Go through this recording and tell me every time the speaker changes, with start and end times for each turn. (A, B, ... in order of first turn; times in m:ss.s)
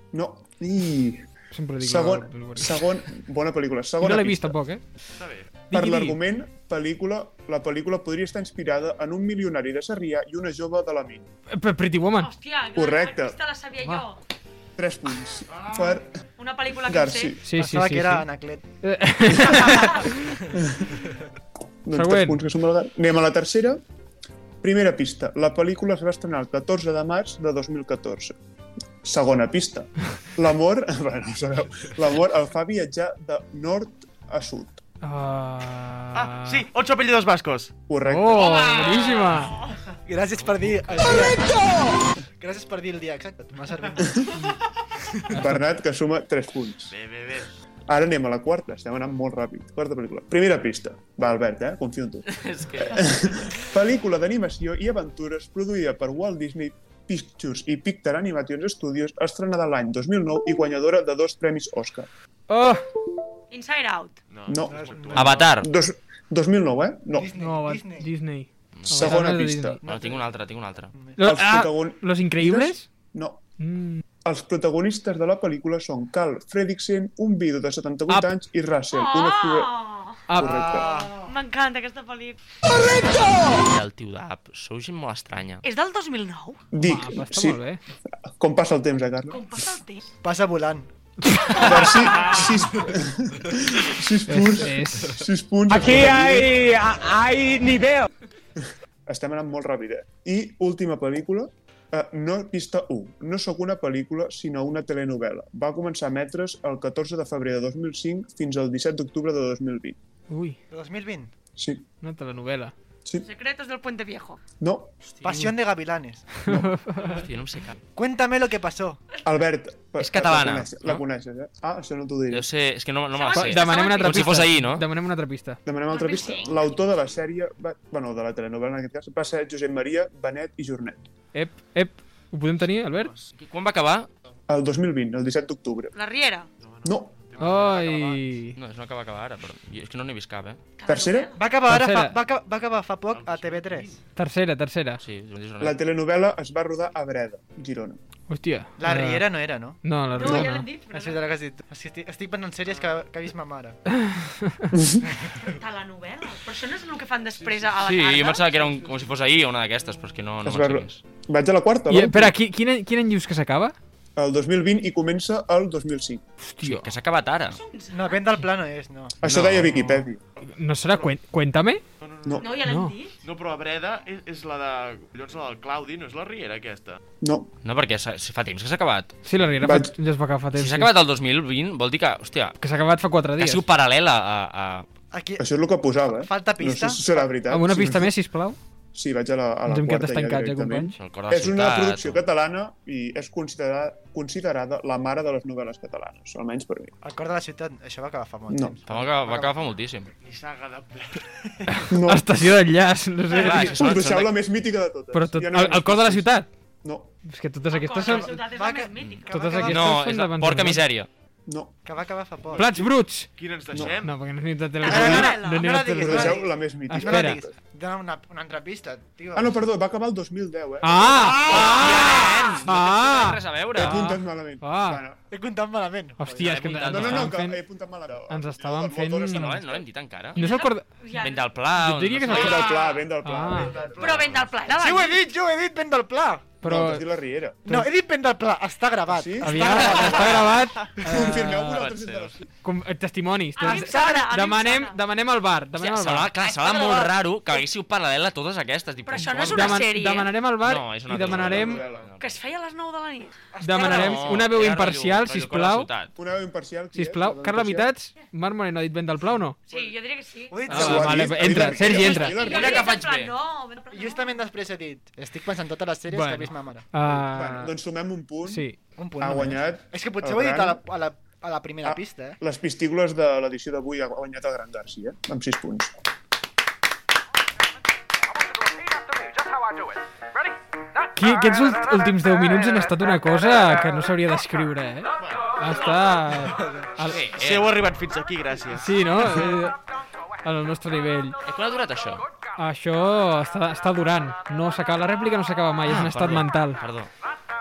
0:00.1-0:01.2 A
0:01.5-0:02.8 B
0:01.8-0:04.6 A
0:04.0-0:04.8 B
0:05.2-0:05.6 C
0:05.7-0:06.2 B
0:05.7-0:11.3 A
0:11.5-0:12.3 B
0:12.2-0:14.2 D
0:12.7-0:13.4 A
0:14.8-0:16.1 A
0:16.4-0:17.4 D
0:16.8-0:17.4 A
0:17.4-0:18.3 B
0:17.6-0:18.6 E
0:18.8-0:20.4 B
0:20.5-0:21.0 A
0:21.8-0:23.8 A
0:21.9-0:22.4 B
0:24.6-0:28.4 A
0:29.0-0:34.8 A
0:35.0-0:36.6 B
0:36.1-0:37.7 C
0:37.9-0:38.6 A
0:38.0-0:39.5 B
0:38.6-0:39.8 D
0:40.0-0:41.9 E
0:42.4-0:44.5 E
0:45.3-0:45.6 B
0:45.3-0:46.9 A
0:46.9-0:47.5 C
0:47.9-1:02.1 A
0:52.3-0:53.2 F
1:02.5-1:02.8 B
1:03.5-1:04.2 D
1:04.3-1:05.6 C
1:04.5-1:07.3 A
1:04.7-1:05.4 E
1:05.1-1:05.7 F
1:07.1-1:08.1 E
1:07.3-1:09.8 B
1:08.8-1:09.2 F
1:08.9-1:09.8 A
1:09.8-1:11.2 E
1:09.8-1:10.9 F
1:11.2-1:12.9 B
1:11.2-1:13.4 A
1:13.6-1:14.0 B
1:14.2-1:19.7 A
1:18.9-1:20.2 D
1:20.3-1:20.6 B
1:20.3-1:21.0 A
1:20.4-1:21.3 E
1:20.8-1:22.4 D
1:23.5-1:25.6 F
1:25.6-1:26.6 D
1:26.7-1:27.6 A
1:26.8-1:27.8 B
1:28.2-1:29.4 A
1:29.3-1:30.0 D
1:30.2-1:30.9 E
1:31.3-1:31.7 B
1:31.5-1:36.6 A
1:34.3-1:35.3 B
1:38.6-1:50.0 A
1:50.3-1:50.6 B
1:50.7-1:51.3 E
1:51.6-1:51.8 A
1:52.0-1:52.7 B
1:53.2-1:54.4 D
1:54.6-1:55.5 A
1:55.2-1:56.4 E
1:56.4-1:56.8 A
1:56.5-1:57.2 B
1:57.0-1:57.8 F
1:57.9-1:59.0 E
1:59.2-2:02.5 A
2:00.0-2:01.0 F
2:02.3-2:04.9 F
2:03.2-2:04.5 D
2:03.3-2:05.6 B
2:05.6-2:11.0 A
2:05.9-2:06.7 D
2:11.3-2:13.1 B
2:13.0-2:13.2 C
2:13.3-2:14.1 F
2:14.5-2:15.9 A
2:15.9-2:16.5 D
2:16.6-2:18.3 C
2:16.8-2:17.1 A
2:17.4-2:18.6 B
2:18.6-2:20.6 F
2:20.8-2:21.4 D
2:20.8-2:21.3 A
2:21.4-2:24.0 E
2:21.7-2:22.2 B
2:23.1-2:24.0 C
2:24.2-2:25.0 B
2:25.0-2:25.8 F
2:25.6-2:28.0 A
2:28.3-2:30.7 B
2:28.8-2:29.8 E
2:30.2-2:31.2 D
2:30.2-2:30.5 A
2:30.9-2:33.8 E
2:33.9-2:34.7 B
2:34.7-2:35.0 A
2:35.4-2:38.4 D
2:37.3-2:37.7 C
2:37.8-2:41.0 F
2:38.4-2:39.2 C
2:40.4-2:42.3 A
2:41.9-2:43.7 B
2:44.2-2:46.2 A
2:46.4-2:46.9 B
2:46.6-2:47.6 F
2:47.5-2:48.2 D
2:47.9-2:49.2 E
2:49.2-2:50.2 A
2:49.2-2:49.8 F
2:50.6-2:51.8 B
2:52.0-2:52.5 C
2:52.4-2:53.2 D
2:52.6-2:52.9 B
2:53.2-2:57.0 C
2:57.2-2:57.5 A
2:57.6-2:59.1 F
2:59.2-3:00.9 B
2:59.6-2:59.9 A
3:00.5-3:02.6 F
3:02.6-3:03.6 B
3:03.4-3:04.8 F
3:05.1-3:05.4 E
3:05.4-3:08.1 A
3:06.2-3:07.2 E
3:07.5-3:08.6 B
3:08.9-3:16.9 A
3:09.7-3:11.0 B
3:11.0-3:12.2 F
3:17.0-3:19.6 E
3:18.5-3:18.8 A
3:18.9-3:20.1 F
3:20.2-3:21.8 C
3:21.7-3:24.0 B
3:21.9-3:22.3 A
3:23.3-3:24.3 F
3:23.4-3:26.3 A
3:25.1-3:26.5 B
3:26.8-3:27.1 A
3:27.2-3:28.4 B
3:27.7-3:29.6 D
3:28.0-3:29.9 E
3:29.0-3:31.1 F
3:29.3-3:30.8 B
3:31.5-3:31.7 A
3:31.8-3:32.9 E
3:32.6-3:33.3 B
3:33.4-3:34.2 C
3:33.7-3:34.0 A
3:33.8-3:37.4 B
3:34.8-3:36.5 D
3:34.8-3:35.3 A
3:34.9-3:39.6 E
3:35.9-3:37.5 A
3:39.3-3:42.0 A
3:40.8-3:45.0 B
3:41.2-3:44.0 F
3:43.7-3:45.2 A
3:45.3-3:46.6 E
3:46.2-3:47.6 B
3:46.3-3:47.3 F
3:46.8-3:49.8 A
3:48.3-3:49.6 B
3:49.3-3:50.4 F
3:50.3-3:50.8 B
3:50.4-3:51.5 D
3:51.2-3:52.8 F
3:51.8-3:52.6 B
3:52.2-3:54.4 A
3:53.2-3:53.8 B
3:53.5-3:54.0 C
3:54.0-3:55.2 D
3:54.6-3:56.5 E
3:56.6-3:57.0 B
3:56.6-3:57.8 A
3:57.7-4:00.6 E
3:59.1-4:00.5 A
3:59.4-4:01.9 B
4:01.0-4:02.4 A
4:01.7-4:02.3 F
4:02.6-4:06.3 B
4:03.6-4:05.0 D
4:05.8-4:09.9 F
4:06.4-4:07.1 D
4:09.0-4:10.3 D
4:09.5-4:11.8 B
4:10.6-4:12.4 F
4:11.3-4:12.1 A
4:12.2-4:13.3 D
4:13.5-4:14.5 E
4:13.6-4:15.9 B
4:13.7-4:16.1 F
4:16.2-4:17.9 A
4:16.9-4:19.6 B
4:19.7-4:20.6 D
4:20.5-4:21.8 E
4:20.7-4:22.4 B
4:20.7-4:22.9 A
4:21.8-4:24.4 D
4:22.2-4:23.3 F
4:23.9-4:26.8 E
4:26.1-4:27.7 B
4:27.3-4:28.7 A
4:28.4-4:28.8 B
4:29.0-4:32.4 E
4:29.2-4:30.8 A
4:31.8-4:36.0 A
4:41.2-4:47.2 B
4:47.0-4:47.8 F
4:47.3-4:48.9 C
4:48.8-4:49.8 B
4:50.4-4:51.4 B
4:51.4-4:52.2 F
4:52.6-4:56.8 B
4:55.8-4:57.1 F